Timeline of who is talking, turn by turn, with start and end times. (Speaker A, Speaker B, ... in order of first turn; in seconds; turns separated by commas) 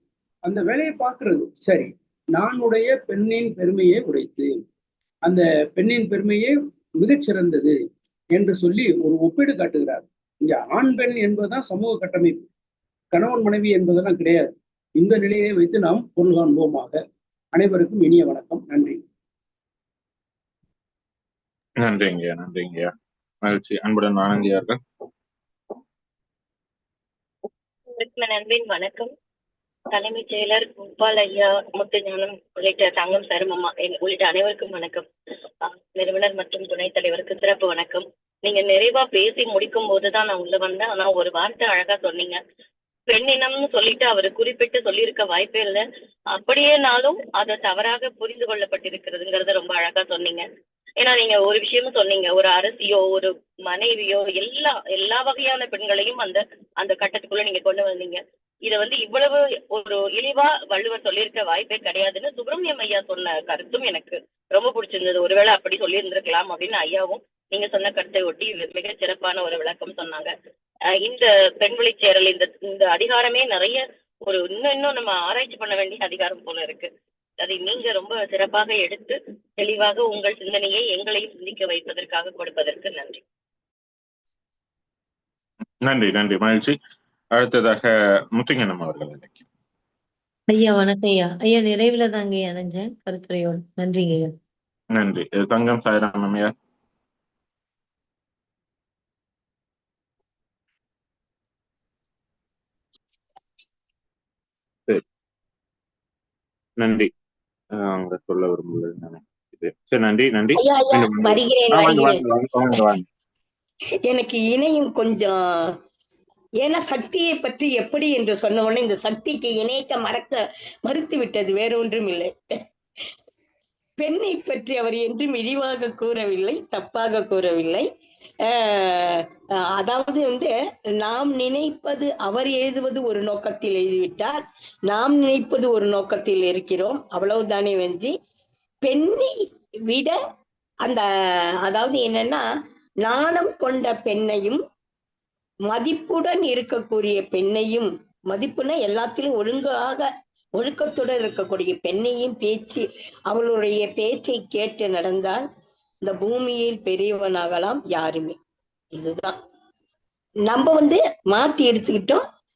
Speaker A: 0.5-4.5, Speaker A: 5.2-7.8, Speaker A: 8.3-12.5, Speaker A: 13.1-17.0, Speaker A: 17.5-19.0, Speaker B: 21.8-22.9, Speaker B: 23.4-24.8, Speaker C: 28.0-29.1, Speaker C: 29.9-35.1, Speaker C: 35.6-42.4, Speaker C: 43.1-45.8, Speaker C: 46.4-50.5, Speaker C: 51.0-70.3, Speaker C: 71.0-83.2, Speaker B: 85.8-86.8, Speaker B: 87.3-89.4, Speaker D: 90.5-94.3, Speaker B: 95.0-96.5, Speaker B: 106.8-107.1, Speaker B: 107.9-111.3, Speaker E: 110.6-112.8, Speaker B: 111.8-113.0, Speaker E: 114.0-115.7, Speaker E: 116.6-122.3, Speaker E: 124.0-127.9, Speaker E: 128.5-129.3, Speaker E: 129.8-138.1, Speaker E: 138.8-139.3, Speaker E: 139.9-140.1, Speaker E: 141.7-142.4, Speaker E: 143.0-144.6, Speaker E: 145.7-155.4, Speaker E: 156.0-158.4, Speaker E: 158.9-159.4, Speaker E: 160.5-162.2